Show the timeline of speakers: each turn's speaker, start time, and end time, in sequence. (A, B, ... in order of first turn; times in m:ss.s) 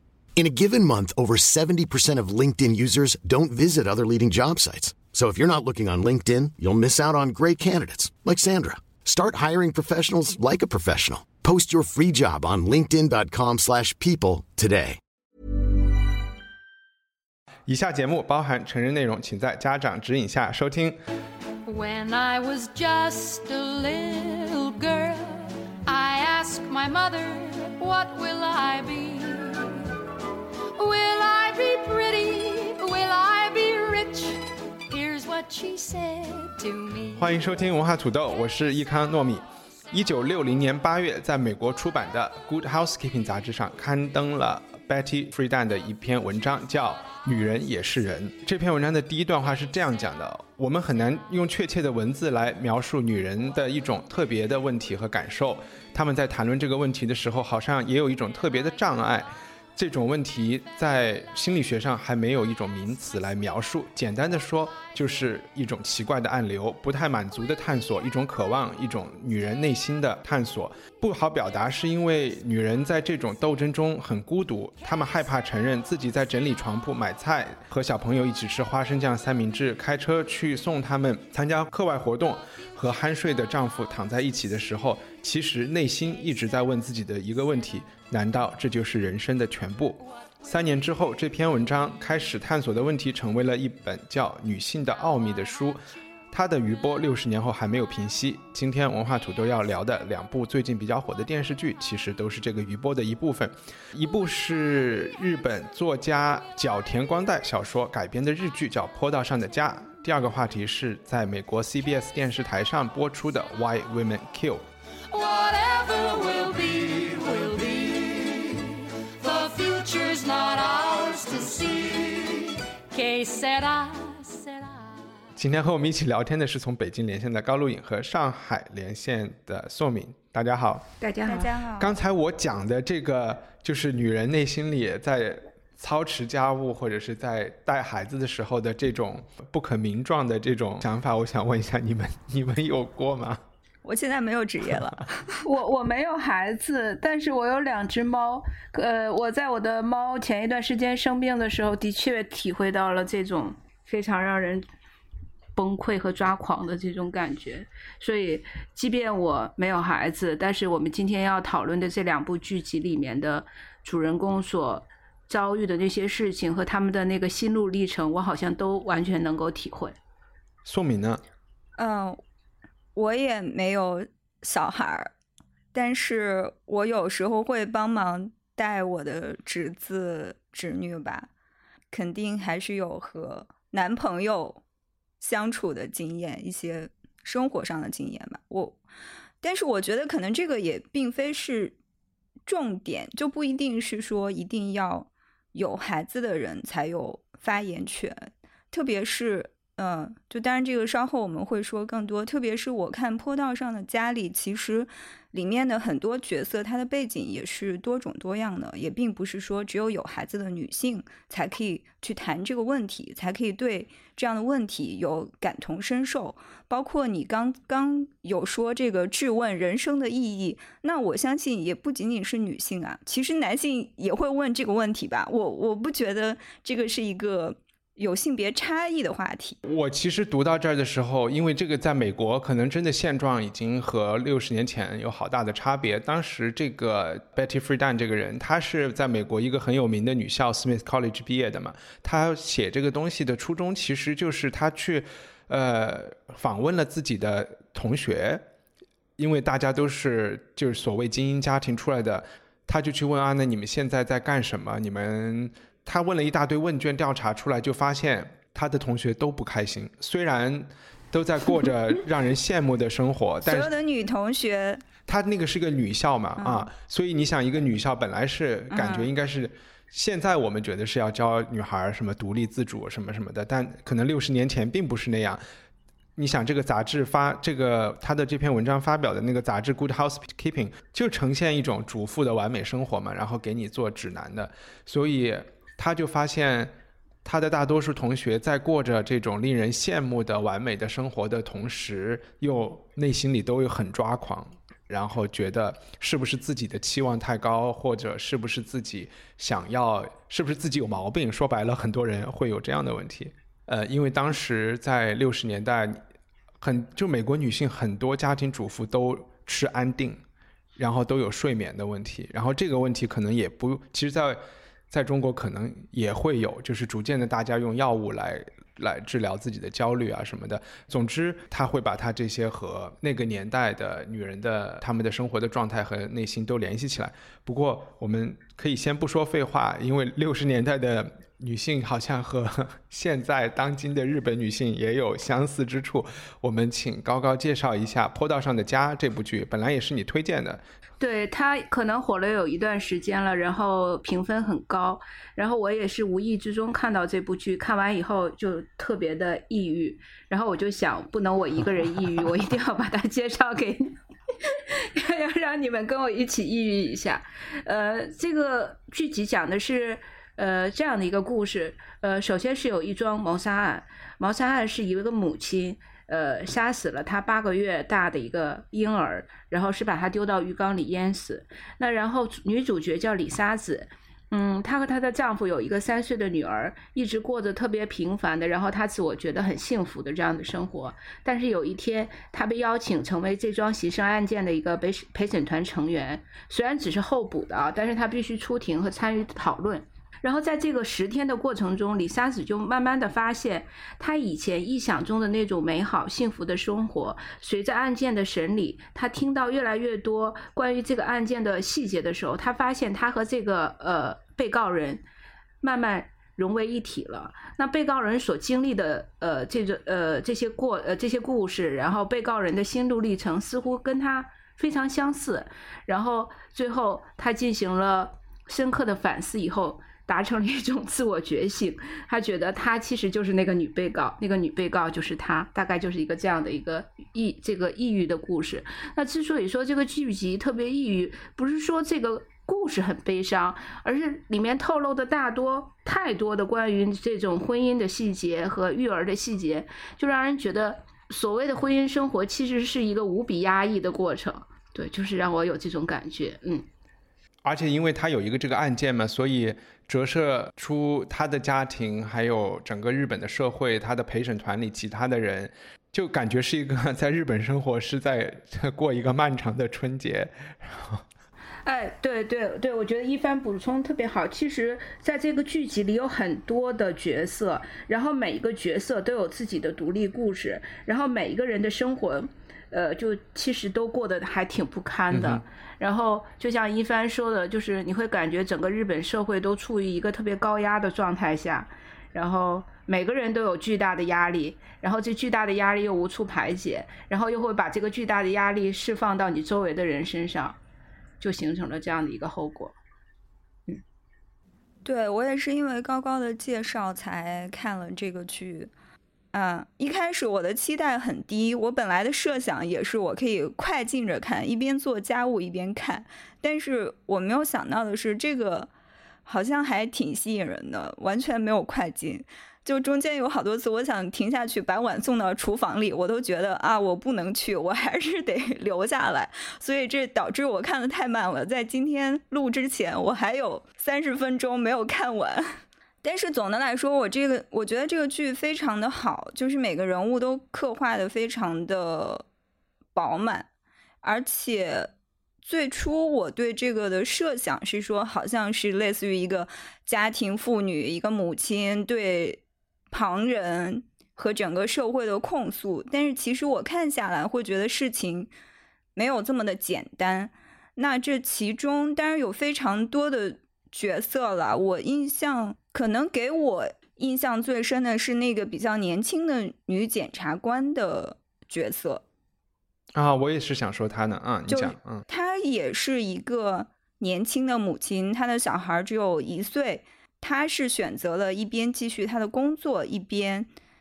0:00.4-0:15.0 A
0:17.7-0:21.0 B
0:21.6-0:29.9 C
0:30.8-0:37.4 C
0:37.1-1:35.8 B
1:36.3-1:54.6 B
1:55.1-2:04.9 C
2:05.4-2:10.8 B
2:11.0-2:11.6 D
2:11.2-2:11.9 E
2:11.8-2:23.4 B
2:23.8-2:25.3 E
2:25.4-2:34.6 D
2:35.6-2:50.0 D
2:50.6-2:51.2 B
2:51.8-2:52.2 E
2:52.9-2:55.1 E
2:55.7-3:01.3 E
3:01.9-3:04.6 E
3:05.2-3:08.8 E
3:09.4-3:11.7 E
3:12.4-3:49.6 E
3:49.6-4:08.4 B
4:09.2-4:23.7 B
4:23.4-4:24.8 E
4:25.1-4:35.4 B
4:26.4-4:26.7 E
4:28.7-4:29.1 E
4:36.2-4:46.7 B
4:47.2-5:06.0 B
5:06.6-5:10.2 B
5:10.8-5:40.6 B
5:41.0-6:45.0 D
6:45.6-7:26.6 D
7:27.4-7:41.0 B
7:41.6-8:10.6 D
7:55.1-7:55.4 B
8:11.2-8:12.8 D
8:14.8-8:18.7 E
8:19.3-8:28.7 E
8:29.2-8:52.2 E
8:52.9-8:53.5 E
8:54.0-9:08.3 E
9:09.0-9:22.0 E
9:22.9-9:25.0 B
9:24.5-9:33.5 E